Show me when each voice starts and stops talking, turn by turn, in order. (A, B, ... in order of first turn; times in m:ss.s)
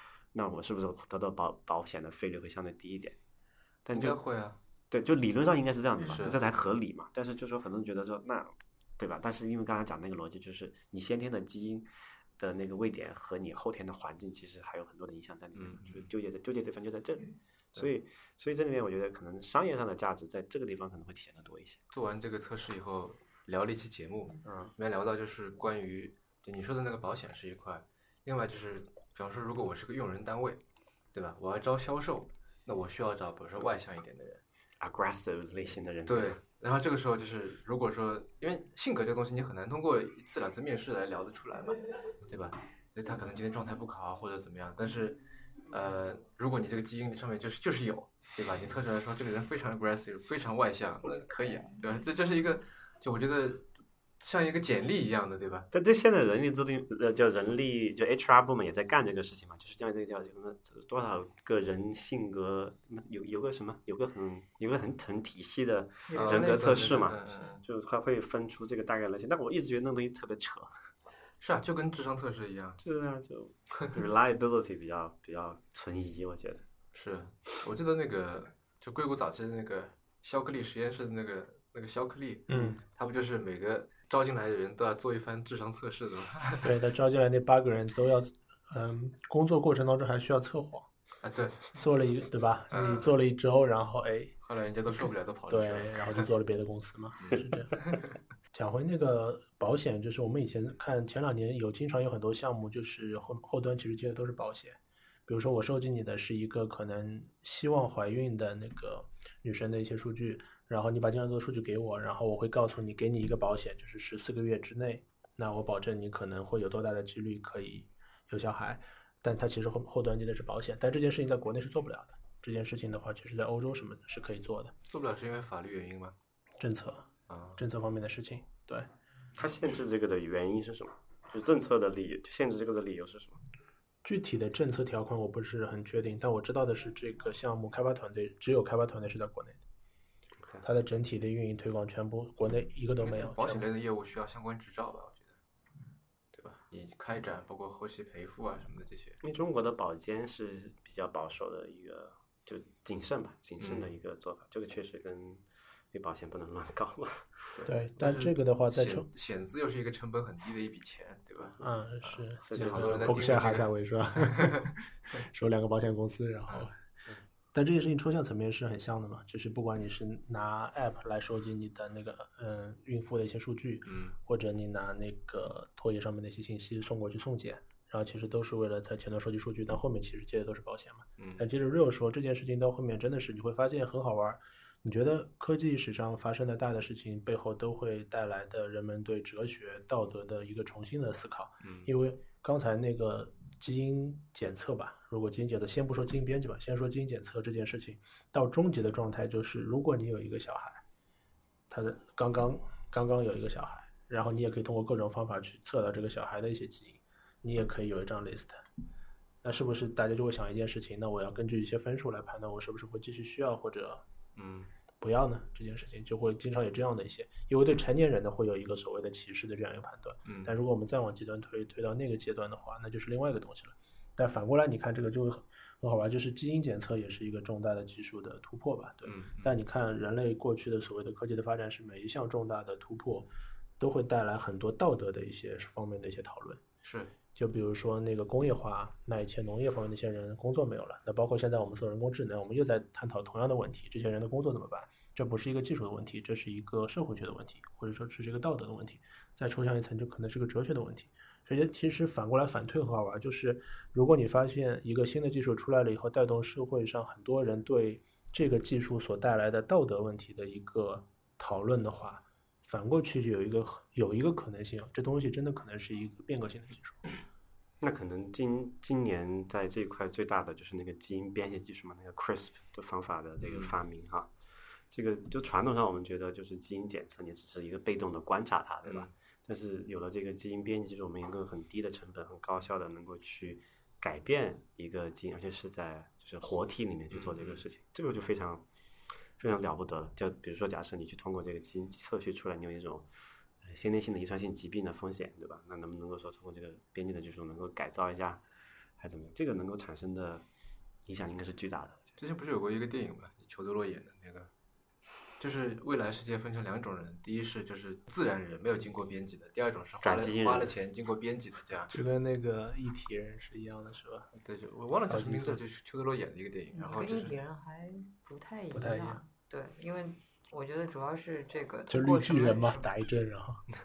0:00.3-0:03.2 A
0:03.8-0:04.2 A
0:03.9-0:04.6 B
0:04.9-0:11.9 A
0:06.0-0:06.4 B
0:12.4-0:21.8 A
0:15.5-0:16.1 B
0:21.9-0:30.6 B
0:24.4-0:24.7 A
0:31.1-0:34.4 B
0:34.8-0:36.4 A
0:36.1-0:53.7 B
0:54.2-0:55.7 B
0:55.7-1:10.7 A
1:06.1-1:06.8 C
1:06.1-1:07.6 B
1:11.4-1:12.8 B
1:12.8-1:16.6 A
1:16.9-1:26.7 B
1:22.5-1:22.8 D
1:26.6-1:30.9 D
1:31.2-1:31.8 B
1:31.8-1:34.4 D
1:32.7-1:33.1 B
1:34.4-1:36.3 B
1:34.9-1:37.9 D
1:37.2-1:38.1 B
1:38.5-2:04.7 D
2:04.9-2:06.2 B
2:06.6-2:08.9 D
2:07.3-2:07.6 B
2:09.4-2:13.4 A
2:14.0-2:19.6 D
2:20.6-2:23.7 D
2:23.0-2:25.4 B
2:26.3-2:29.2 B
2:29.2-2:37.5 A
2:33.6-2:33.9 B
2:37.6-2:41.6 B
2:37.7-2:39.1 D
2:41.6-2:46.8 D
2:42.4-2:43.2 A
2:42.5-2:44.5 B
2:47.5-3:20.8 D
2:53.9-2:54.2 B
3:01.2-3:01.4 B
3:11.6-3:11.9 B
3:21.7-3:28.6 D
3:29.4-3:34.0 D
3:34.4-3:34.7 B
3:35.0-3:53.3 D
3:40.3-3:40.5 B
3:49.0-3:49.5 B
3:53.8-3:56.6 D
3:56.8-3:57.1 B
3:57.4-4:27.0 D
4:27.8-4:34.3 A
4:33.4-4:33.8 B
4:34.9-4:48.6 A
4:38.8-4:39.1 B
4:47.1-4:47.6 B
4:49.4-4:53.1 A
4:53.6-4:58.4 A
4:59.0-5:00.5 A
5:01.1-5:02.0 A
5:02.2-5:04.5 B
5:05.4-5:11.9 B
5:10.0-5:10.7 A
5:11.9-5:14.3 D
5:14.4-5:17.4 B
5:15.1-5:15.6 D
5:16.7-5:22.8 C
5:18.7-5:19.2 D
5:21.9-5:23.6 D